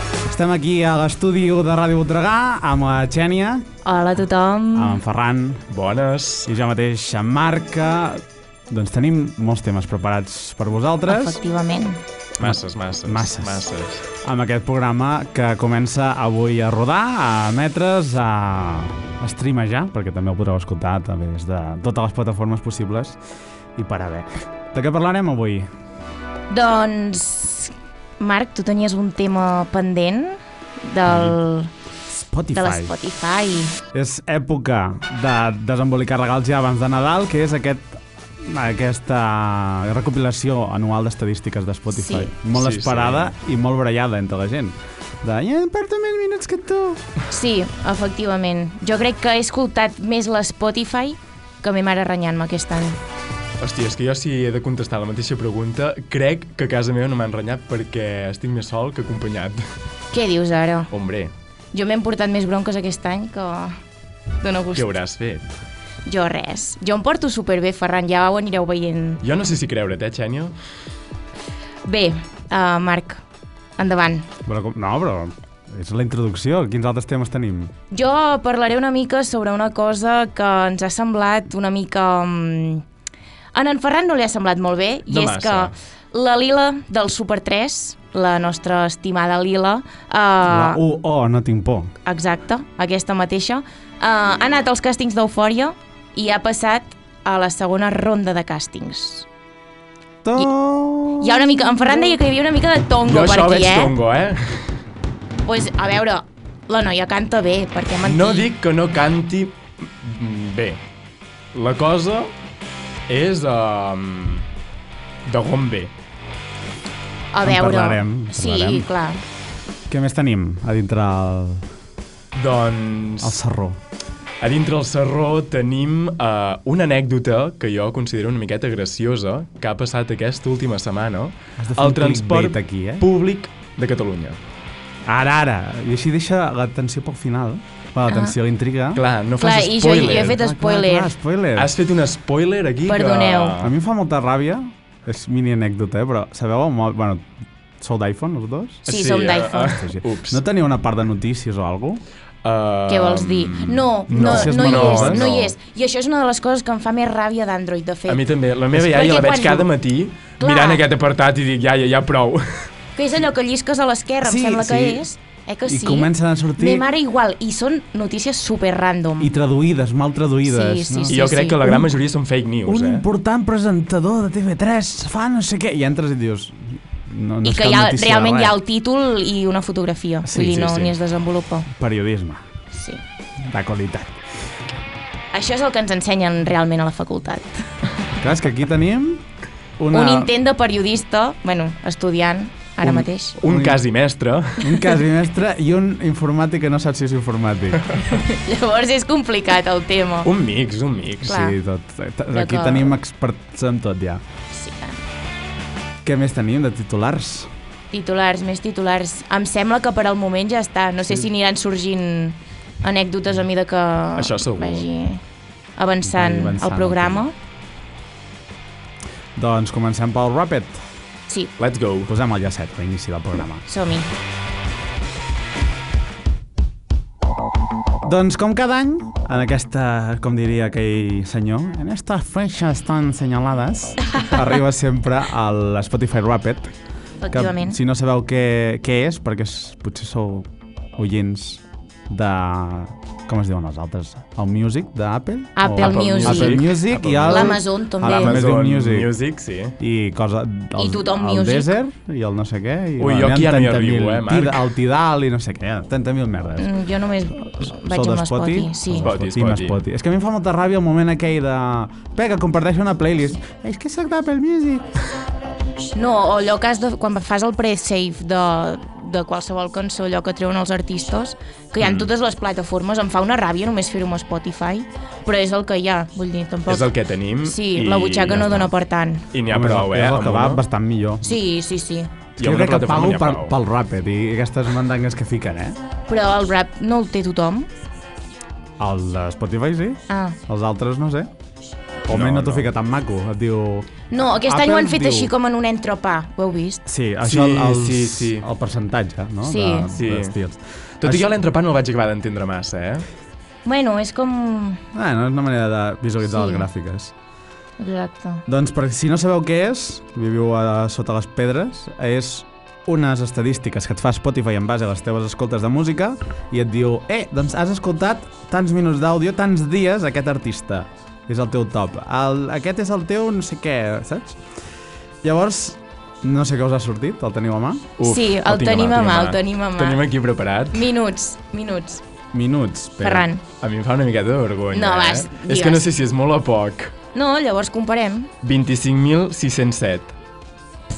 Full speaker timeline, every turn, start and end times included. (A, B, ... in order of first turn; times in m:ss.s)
0:00.3-0:03.6 A
0:03.8-0:05.0 B
0:04.7-0:05.6 A
0:05.7-0:06.5 C
0:06.5-0:11.4 A
0:11.0-0:12.0 B
0:12.4-0:14.0 C
0:12.4-0:13.7 A
0:14.2-0:23.2 A
0:23.8-0:25.7 A
0:26.5-0:31.7 B
0:32.1-0:33.0 A
0:32.5-0:33.8 B
0:33.9-0:47.0 A
0:41.9-0:42.3 B
0:42.5-0:43.3 C
0:47.3-0:53.0 B
0:53.6-0:59.6 C
1:00.1-1:00.9 B
1:00.9-1:01.3 C
1:01.7-1:03.7 B
1:04.4-1:04.9 B
1:04.7-1:05.5 C
1:06.0-1:09.2 B
1:09.2-1:10.5 C
1:11.8-1:13.2 B
1:13.8-1:14.3 B
1:14.4-1:17.7 A
1:17.9-1:22.8 B
1:23.5-1:30.8 B
1:25.1-1:25.7 C
1:30.4-1:31.9 A
1:32.0-1:39.3 B
1:40.2-1:42.2 A
1:41.2-1:43.9 B
1:43.0-1:44.8 C
1:45.4-1:48.5 B
1:48.0-1:50.8 C
1:51.5-1:52.3 C
1:53.1-1:54.4 C
1:55.2-1:55.9 C
1:57.3-1:59.2 B
1:57.4-1:58.9 A
1:59.9-2:01.6 A
2:02.3-2:03.4 C
2:03.2-2:03.8 A
2:04.4-2:14.4 C
2:11.6-2:13.1 A
2:15.0-2:19.0 A
2:18.1-2:18.3 B
2:18.9-2:20.4 C
2:19.4-2:21.1 B
2:20.0-2:21.7 A
2:21.6-2:23.7 C
2:22.8-2:23.6 B
2:23.6-2:28.9 A
2:28.9-2:30.4 C
2:28.9-2:29.8 B
2:29.6-2:32.0 A
2:32.4-2:35.5 C
2:32.9-2:39.7 B
2:34.1-2:35.3 A
2:38.1-2:42.7 C
2:40.4-2:40.8 B
2:43.0-2:49.3 B
2:44.2-2:45.0 A
2:45.6-2:46.8 A
2:49.2-2:51.9 A
2:50.4-2:51.7 B
2:51.1-2:53.0 C
2:52.6-2:58.6 A
2:57.4-3:01.7 B
3:00.2-3:00.9 A
3:01.7-3:02.4 A
3:02.7-3:03.0 B
3:03.4-3:04.2 A
3:05.3-3:07.7 B
3:08.2-3:09.2 A
3:09.8-3:10.3 A
3:09.9-3:13.4 B
3:12.8-3:13.8 A
3:13.4-3:14.8 C
3:14.6-3:18.0 A
3:18.0-3:20.3 B
3:20.2-3:21.4 C
3:21.2-3:21.6 B
3:21.2-3:24.2 A
3:22.3-3:23.0 B
3:24.5-3:25.0 B
3:26.0-3:27.5 A
3:27.9-3:35.2 B
3:34.2-3:34.8 C
3:35.8-3:37.3 B
3:36.0-3:37.2 A
3:39.4-3:40.8 A
3:41.6-3:42.1 C
3:42.1-3:43.6 A
3:43.7-3:44.1 B
3:48.0-3:56.7 A
3:57.2-3:57.8 B
3:57.3-4:09.1 A
4:05.6-4:06.6 B
4:05.8-4:09.8 C
4:07.3-4:08.4 B
4:09.8-4:16.7 A
4:10.8-4:11.7 B
4:13.0-4:14.7 C
4:16.6-4:19.1 B
4:17.4-4:24.9 A
4:19.0-4:19.8 C
4:25.9-4:39.2 B
4:31.8-4:32.1 C
4:36.7-4:38.7 C
4:39.3-4:40.6 C
4:39.5-4:41.4 A
4:41.2-4:42.1 B
4:42.4-4:43.5 C
4:42.4-4:45.8 A
4:46.1-4:47.7 B
4:48.8-4:51.3 A
4:50.1-4:50.4 B
4:52.1-4:52.7 C
4:52.1-4:55.3 A
4:54.1-4:56.8 B
4:56.8-5:01.3 A
4:57.2-4:58.5 C
4:59.4-4:59.9 B
4:59.9-5:00.3 C
5:01.0-5:03.0 C
5:03.6-5:04.8 B
5:04.9-5:07.1 A
5:06.2-5:06.7 B
5:07.8-5:08.4 B
5:08.5-5:24.4 A
5:25.2-5:28.0 A
5:28.0-5:30.9 C
5:28.0-5:30.0 B
5:30.7-5:32.0 B
5:32.3-5:33.3 A
5:33.0-5:33.4 B
5:33.6-5:36.9 C
5:34.7-5:35.9 B
5:37.1-5:38.3 B
5:38.4-5:40.1 C